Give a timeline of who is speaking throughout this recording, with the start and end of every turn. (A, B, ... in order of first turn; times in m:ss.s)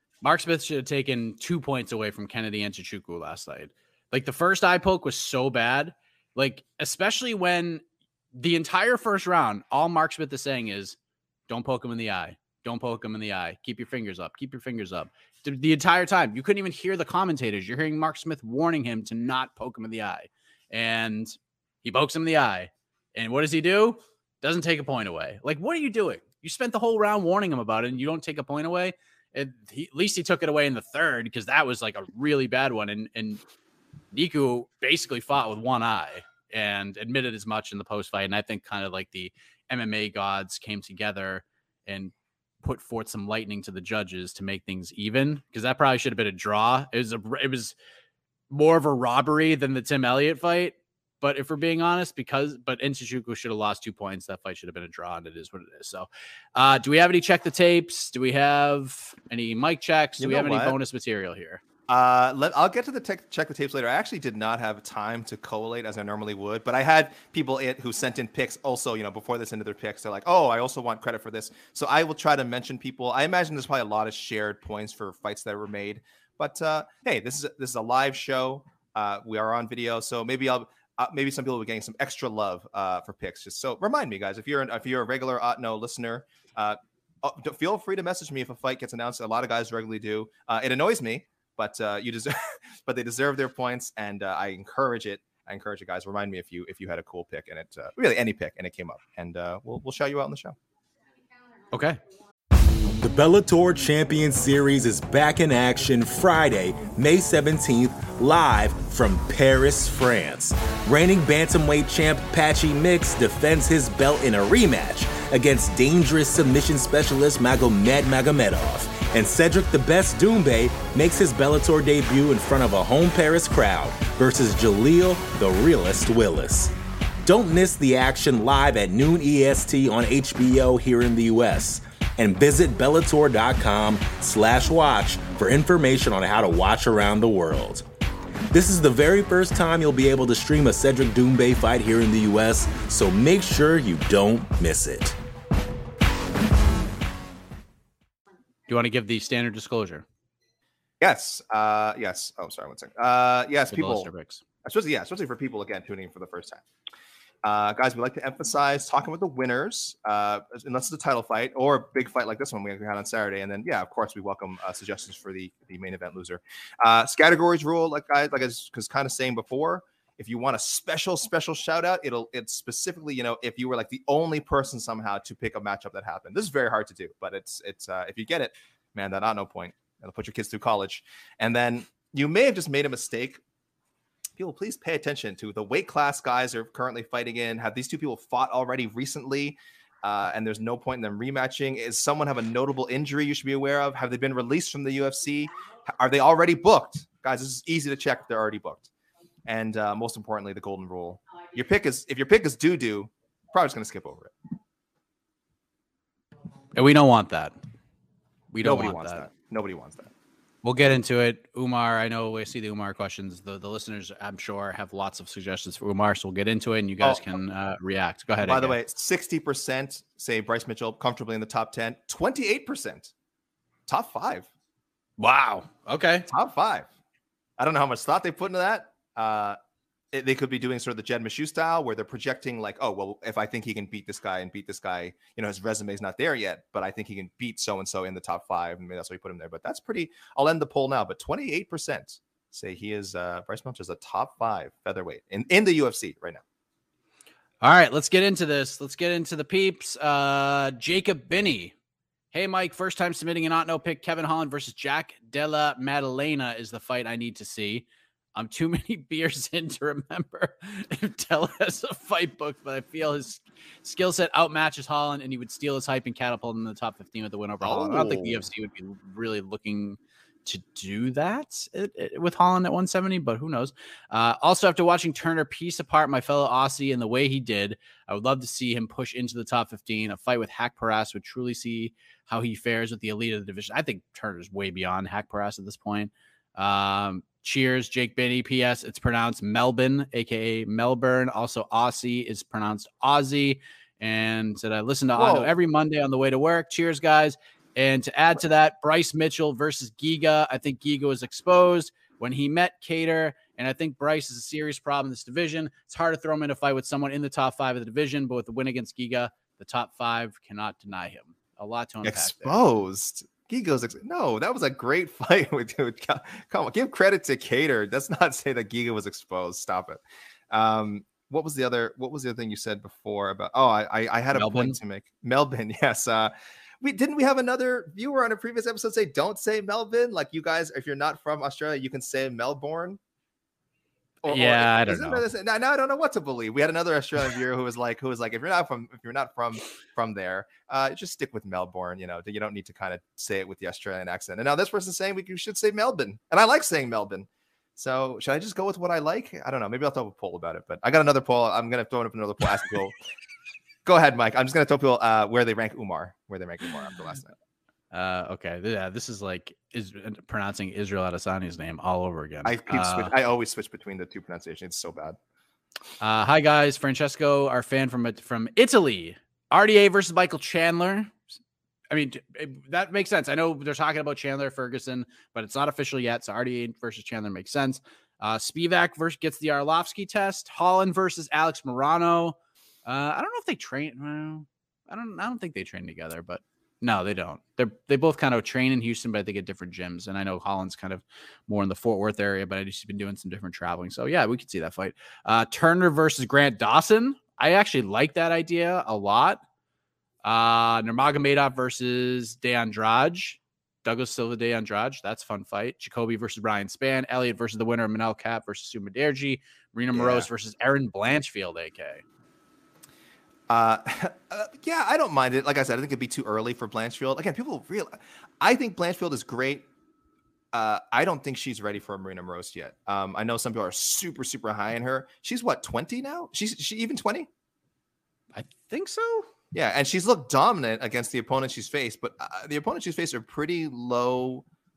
0:00.2-0:11.0 A
0:11.5-0:33.4 A
0:34.1-0:47.8 A
0:48.5-1:01.6 A
1:00.2-1:00.8 B
1:01.9-1:40.6 B
1:41.7-1:42.0 A
1:42.9-2:17.8 C
2:18.5-2:25.2 C
2:28.7-2:30.0 A
2:31.0-2:34.1 B
2:33.7-2:34.4 A
2:34.6-2:36.6 B
2:37.4-3:03.4 B
3:04.4-3:18.9 B
3:19.4-3:24.3 B
3:26.7-3:27.5 A
3:28.5-3:29.3 A
3:28.6-3:30.1 B
3:30.6-3:38.8 A
3:37.0-3:37.3 B
3:38.4-3:43.1 B
3:43.9-3:44.5 B
3:45.2-3:46.3 A
3:46.3-3:46.9 B
3:47.6-3:49.6 B
3:50.1-4:06.4 B
4:07.6-4:11.7 A
4:12.3-5:12.5 A
4:27.6-4:28.5 B
4:55.2-4:55.5 B
5:12.0-5:20.0 B
5:20.5-5:33.0 B
5:24.3-5:24.8 A
5:34.2-5:53.0 B
5:34.2-5:35.2 A
5:53.8-5:57.3 B
5:57.9-6:03.1 A
6:02.4-6:05.2 B
6:06.0-6:11.2 A
6:11.9-6:39.4 A
6:40.2-6:52.0 A
6:49.9-6:50.3 B
6:53.5-6:59.6 B
7:00.5-7:07.3 B
7:08.3-7:09.3 A
7:09.5-7:14.4 B